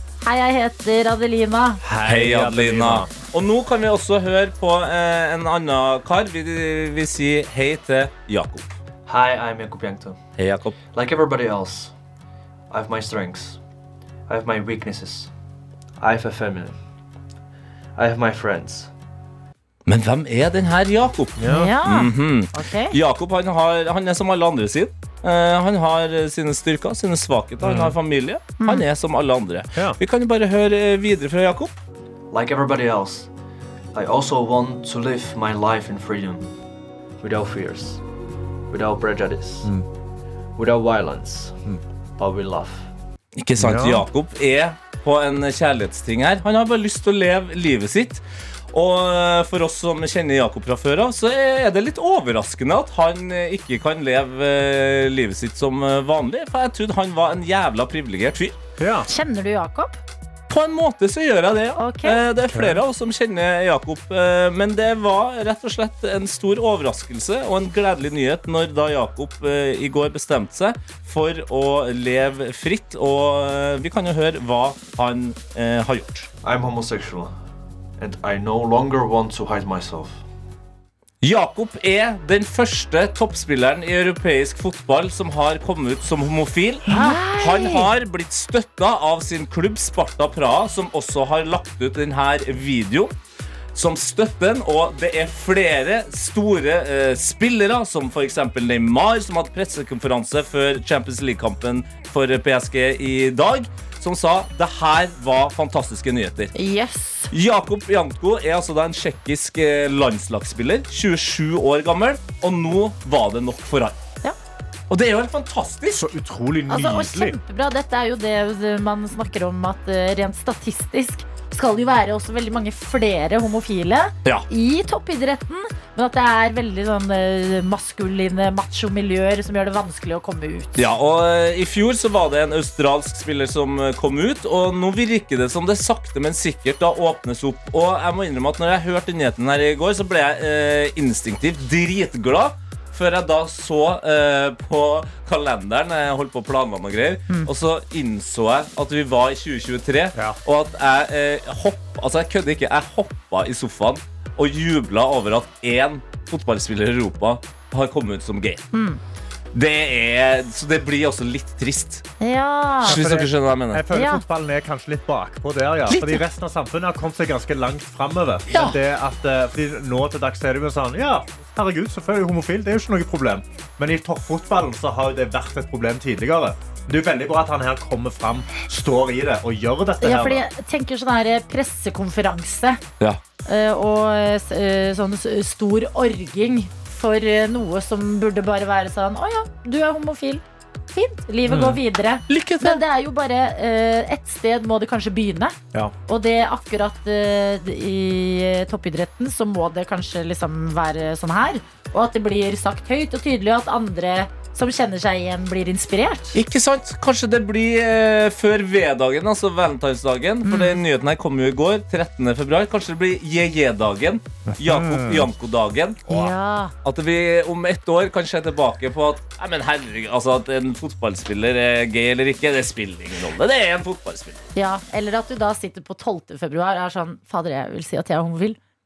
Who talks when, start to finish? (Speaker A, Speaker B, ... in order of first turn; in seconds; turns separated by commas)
Speaker A: 0.2-1.8, Speaker B: 1.8-3.1, Speaker C: 2.0-8.8, Speaker D: 9.1-10.2, Speaker C: 10.4-10.8, Speaker D: 10.9-11.9, Speaker D: 12.7-13.6, Speaker D: 14.3-15.3, Speaker D: 16.0-16.8, Speaker D: 17.9-18.9, Speaker C: 19.9-31.7, Speaker B: 21.4-21.7, Speaker A: 21.5-22.9, Speaker B: 27.6-27.9, Speaker A: 28.6-28.8, Speaker D: 32.3-33.3, Speaker D: 33.9-36.5, Speaker D: 37.2-38.0, Speaker D: 38.7-39.7, Speaker D: 40.5-41.6, Speaker D: 42.2-42.9, Speaker C: 43.4-58.5, Speaker B: 43.6-44.0, Speaker B: 58.8-59.1, Speaker A: 59.1-60.0, Speaker C: 60.5-76.3, Speaker A: 61.8-62.2, Speaker B: 62.5-62.8, Speaker D: 76.4-77.3, Speaker D: 78.0-80.2, Speaker C: 81.2-93.1, Speaker A: 86.9-87.9, Speaker C: 93.7-106.5, Speaker A: 106.5-107.3, Speaker C: 107.3-114.0, Speaker C: 114.9-116.1, Speaker B: 115.9-117.4, Speaker A: 116.7-130.8, Speaker C: 130.8-158.7, Speaker A: 158.7-159.0, Speaker C: 159.5-162.0, Speaker A: 162.2-163.0, Speaker C: 162.8-163.8, Speaker B: 162.8-180.4, Speaker A: 163.9-164.2, Speaker C: 165.9-166.1, Speaker C: 168.5-168.8, Speaker A: 180.0-182.8, Speaker A: 183.4-195.6, Speaker B: 191.4-191.8, Speaker C: 192.3-192.8, Speaker A: 196.1-206.4, Speaker C: 206.3-216.3, Speaker A: 210.4-210.8, Speaker B: 214.5-215.3, Speaker A: 216.1-216.7, Speaker C: 216.8-224.4, Speaker A: 224.6-228.6